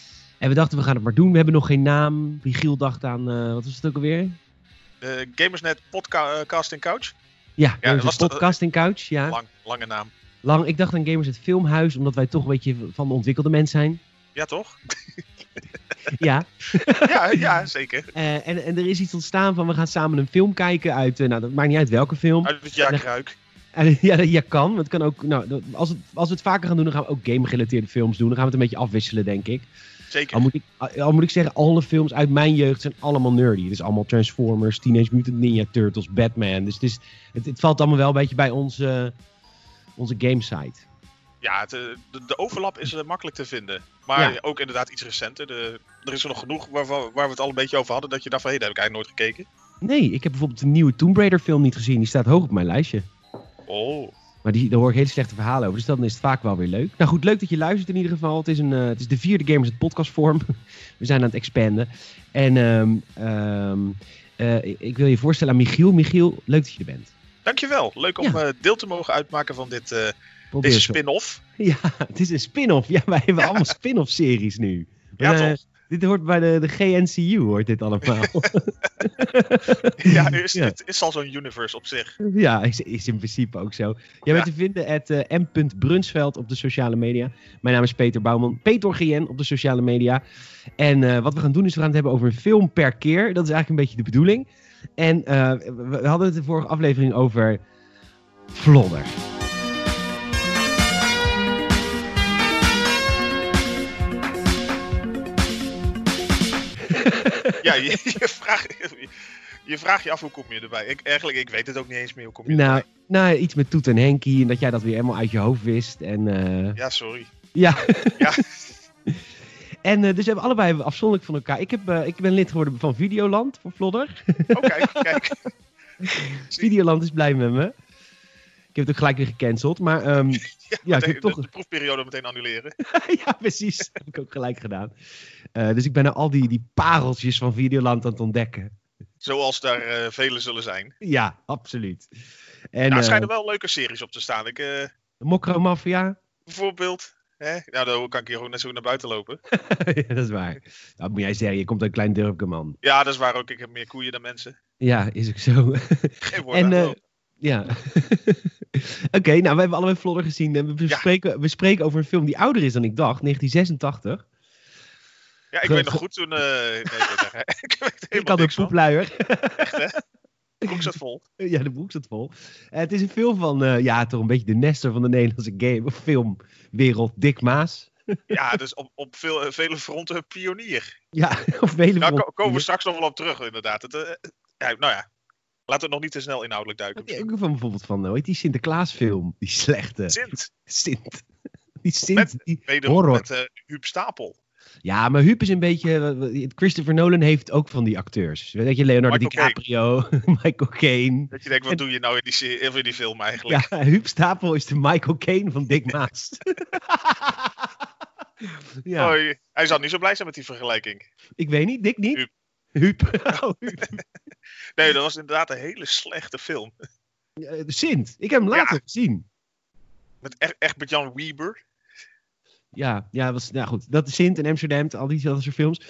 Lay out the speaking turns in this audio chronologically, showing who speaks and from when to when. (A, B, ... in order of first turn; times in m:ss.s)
0:00.4-0:04.4 A
0:05.0-0:07.1 B
0:07.6-0:09.4 A
0:07.8-0:08.5 B
0:09.3-0:10.1 B
0:10.4-0:14.0 A
0:14.4-0:14.8 B
0:16.1-0:17.5 A
0:17.0-0:18.1 B
0:18.1-0:23.0 A
0:22.4-0:23.4 B
0:23.7-0:29.7 A
0:30.1-0:30.5 B
0:30.3-0:39.1 A
0:40.0-0:40.8 A
0:41.4-0:49.5 B
0:49.8-0:53.1 A
0:53.7-0:54.1 B
0:54.4-1:00.4 A
1:01.0-1:07.1 A
1:07.4-1:11.4 B
1:10.5-1:11.0 A
1:11.6-1:20.7 A
1:15.2-1:15.6 B
1:18.2-1:18.5 B
1:20.0-1:22.2 B
1:22.2-1:30.2 A
1:30.8-1:37.6 A
1:38.5-1:39.2 A
1:46.8-1:47.7 A
1:47.6-1:49.1 B
1:49.6-1:52.8 B
1:52.5-1:56.8 A
1:56.8-1:57.3 B
1:57.5-1:58.4 A
1:58.2-1:58.7 B
1:59.8-2:05.3 A
2:04.5-2:05.4 B
2:06.0-2:07.7 A
2:08.7-2:11.5 A
2:10.3-2:12.7 B
2:12.8-2:14.9 A
2:15.5-2:18.7 A
2:19.2-2:20.9 B
2:21.0-2:22.1 A
2:22.7-2:23.3 A
2:22.9-2:24.9 B
2:25.2-2:26.2 A
2:26.5-2:29.4 B
2:29.5-2:32.8 A
2:32.8-2:34.6 B
2:34.8-2:44.2 A
2:36.3-2:37.0 B
2:45.5-2:48.7 B
2:45.6-2:46.0 A
2:46.9-2:47.2 A
2:48.1-2:49.8 A
2:49.6-2:50.0 B
2:50.6-2:51.2 B
2:51.4-2:57.9 A
2:58.3-3:00.9 B
3:01.1-3:02.6 A
3:02.0-3:05.0 B
3:05.7-3:07.2 B
3:07.0-3:11.2 A
3:10.1-3:10.5 B
3:11.8-3:13.2 A
3:12.1-3:14.4 B
3:14.8-3:21.8 A
3:19.1-3:19.6 B
3:21.3-3:23.7 B
3:23.5-3:27.7 A
3:28.4-3:29.2 A
3:29.0-3:31.1 B
3:31.4-3:34.0 A
3:34.7-3:36.7 B
3:37.4-3:39.2 A
3:38.5-3:38.8 B
3:40.2-3:41.6 B
3:42.7-3:45.8 A